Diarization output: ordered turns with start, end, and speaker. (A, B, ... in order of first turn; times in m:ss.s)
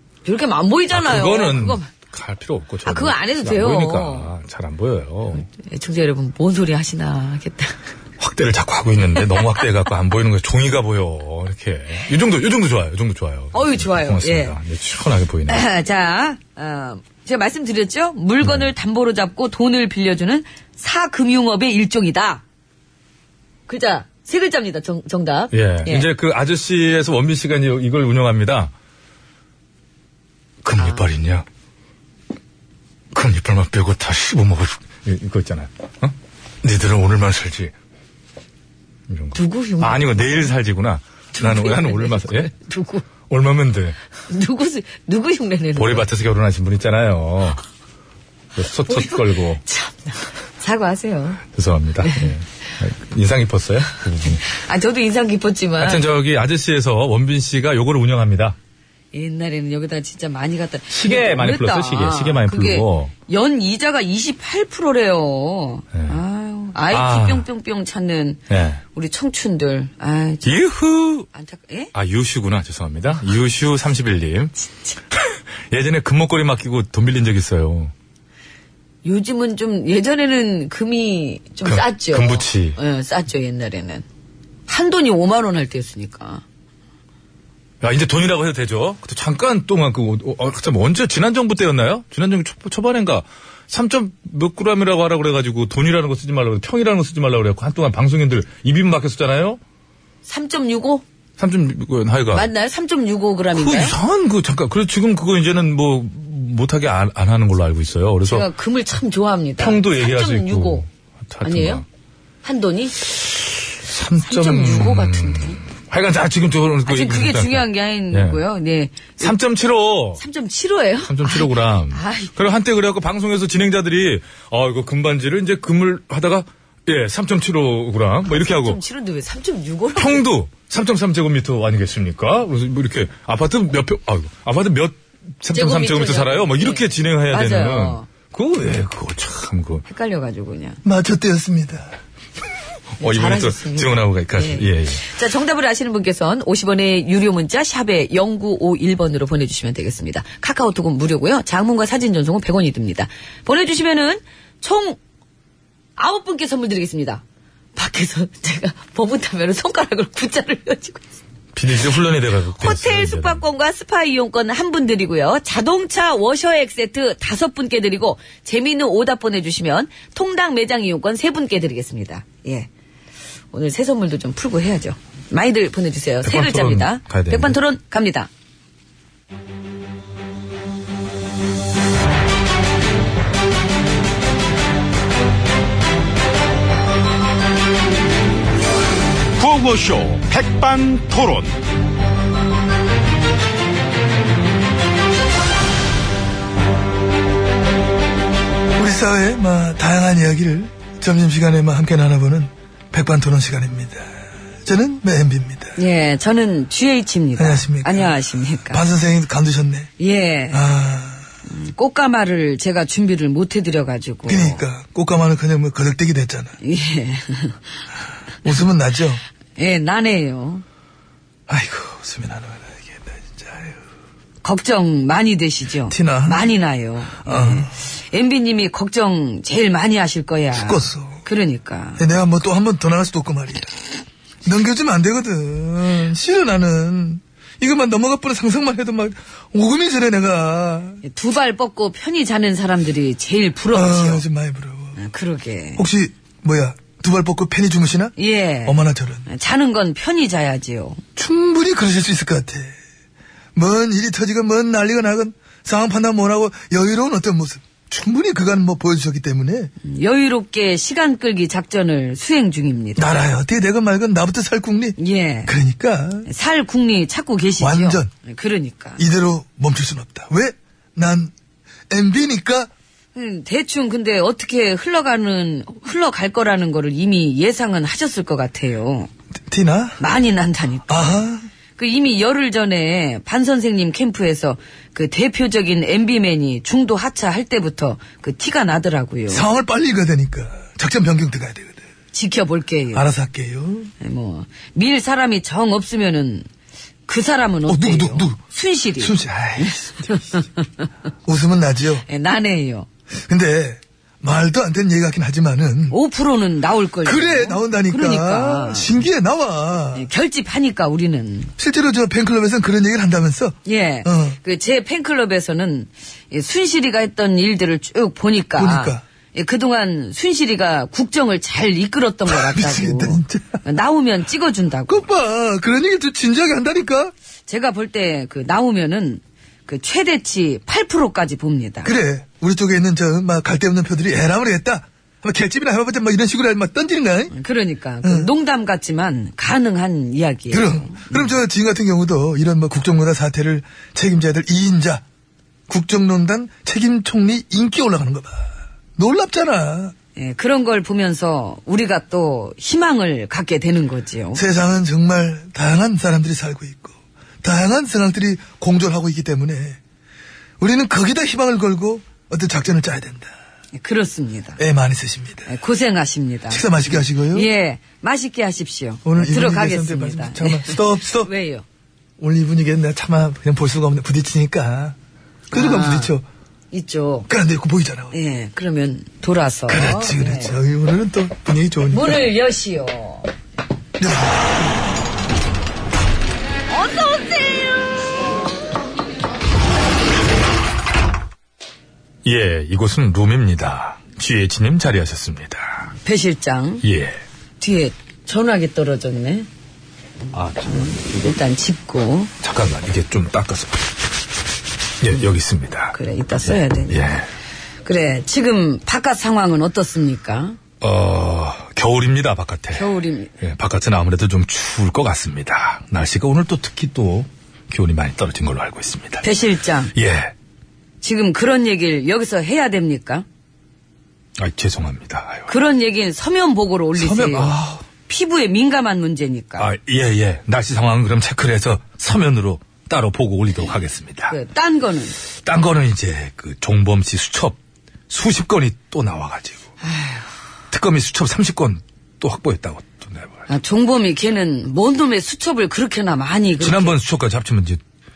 0:00.2-0:01.9 A
0:00.9-0:05.4 B
0:02.8-0:04.3 A
0:05.3-0:07.8 A
0:08.2-0:15.6 B
0:13.5-0:14.6 A
0:15.5-0:22.4 A
0:18.4-0:18.7 B
0:23.7-0:26.1 A
0:25.5-0:28.7 B
0:30.6-0:31.4 B
0:33.1-0:37.7 B
0:39.1-0:42.5 B
0:39.3-0:40.5 A
0:41.3-0:43.0 A
0:43.3-0:44.0 B
0:44.3-0:46.1 A
0:45.8-0:47.6 B
0:48.6-0:49.6 B
0:48.9-0:51.4 A
0:51.5-0:54.4 B
0:54.4-0:56.0 A
0:55.8-0:58.6 B
0:59.1-1:08.4 A
1:00.9-1:03.1 B
1:06.9-1:07.5 B
1:08.5-1:08.8 B
1:08.9-1:10.5 A
1:10.4-1:11.3 B
1:11.3-1:11.9 A
1:11.9-1:14.5 B
1:14.7-1:14.9 A
1:15.1-1:17.9 B
1:19.0-1:24.0 A
1:21.6-1:22.8 B
1:24.7-1:26.4 A
1:27.8-1:39.6 B
1:40.2-1:41.0 A
1:41.4-1:42.5 B
1:42.3-1:44.0 A
1:43.5-1:48.5 B
1:48.3-1:50.8 A
1:49.6-1:51.8 B
1:51.4-1:51.8 A
1:52.4-1:53.1 A
1:53.2-1:58.4 B
1:54.2-1:55.6 A
1:56.8-1:59.3 A
1:59.2-2:00.2 B
2:00.2-2:02.3 A
2:01.0-2:08.8 B
2:08.4-2:10.2 A
2:10.0-2:19.8 B
2:15.5-2:18.1 A
2:19.8-2:20.8 A
2:20.8-2:21.9 C
2:23.0-2:25.0 B
2:23.0-2:35.0 A
2:36.0-2:37.2 A
2:37.8-2:41.0 A
2:41.5-2:43.4 B
2:42.6-2:52.7 A
2:53.5-2:58.3 A
2:56.2-2:57.5 B
3:09.4-3:11.5 D
3:18.8-3:24.1 C
3:24.6-3:25.8 C
3:25.8-3:28.8 A
3:27.4-3:29.9 C
3:30.0-3:30.6 A
3:30.5-3:31.2 C
3:31.5-3:34.6 A
3:34.2-3:36.6 C
3:36.6-3:37.6 A
3:38.4-3:39.2 C
3:39.6-3:40.6 A
3:41.5-3:42.0 B
3:41.5-3:42.8 C
3:43.3-3:43.7 C
3:44.4-3:52.0 A
3:45.9-3:46.5 C
3:47.2-3:47.7 C
3:50.5-3:51.2 C
3:52.0-3:53.8 C
3:54.4-4:01.0 C
4:01.0-4:04.2 A
4:03.7-4:05.0 C
4:05.0-4:05.8 A
4:05.8-4:08.1 C
4:08.2-4:11.0 A
4:08.6-4:09.2 C
4:11.2-4:12.7 C
4:13.5-4:19.7 C
4:19.8-4:23.0 A
4:23.0-4:26.3 C
4:25.0-4:25.5 A
4:26.2-4:29.0 A
4:27.6-4:28.1 C
4:29.0-4:31.3 C
4:31.9-4:32.7 C
4:33.1-4:39.1 A
4:39.5-4:40.0 C
4:40.0-4:41.2 A
4:40.9-4:41.5 C
4:41.8-4:49.4 A
4:49.3-4:51.8 C
4:52.1-4:53.0 A
4:52.9-4:53.9 C
4:54.0-4:56.4 A
4:57.1-5:00.4 A
4:57.7-4:58.4 C
4:59.0-4:59.8 C
5:01.2-5:02.0 C
5:02.1-5:02.9 A
5:03.3-5:06.0 C
5:05.9-5:08.9 A
5:07.0-5:10.1 C
5:09.9-5:11.5 A
5:11.6-5:14.4 C
5:13.6-5:25.0 A
5:18.6-5:19.0 C
5:22.2-5:23.6 C
5:24.9-5:27.1 C
5:27.5-5:31.9 A
5:31.8-5:37.3 C
5:37.3-5:41.3 A
5:38.0-5:38.3 C
5:40.5-5:45.0 C
5:45.7-5:49.9 C
5:50.2-5:54.4 A
5:54.3-5:59.8 C
6:00.6-6:03.3 C
6:03.8-6:04.6 A
6:04.6-6:05.5 C
6:05.5-6:06.6 A
6:06.5-6:07.5 C
6:07.2-6:11.6 A
6:09.0-6:11.3 C
6:12.2-6:15.0 C
6:15.5-6:16.2 C
6:15.5-6:16.1 A
6:16.7-6:17.3 A
6:17.3-6:18.1 C
6:18.1-6:20.5 A
6:19.7-6:22.2 C
6:21.9-6:23.3 A
6:24.0-6:24.8 C
6:26.7-6:27.7 A
6:32.2-6:35.9 B
6:36.0-6:36.8 A
6:36.8-6:37.2 B
6:37.6-6:39.5 A
6:40.3-6:41.3 B
6:40.7-6:42.3 A
6:42.4-6:43.9 B
6:45.0-6:47.3 B
6:45.9-6:47.1 A
6:47.8-6:50.6 A
6:50.8-6:52.8 B
6:52.7-6:53.3 A
6:53.4-6:59.2 B
6:59.2-6:59.9 A
6:59.9-7:00.3 B
7:01.0-7:03.2 A
7:04.4-7:05.5 B
7:05.5-7:07.5 A
7:07.0-7:07.8 B
7:08.1-7:09.7 A
7:09.6-7:14.3 B
7:14.3-7:15.2 A
7:15.4-7:17.6 B
7:18.1-7:19.6 B
7:19.8-7:20.3 A
7:20.7-7:23.4 B
7:23.5-7:27.0 A
7:26.6-7:27.8 B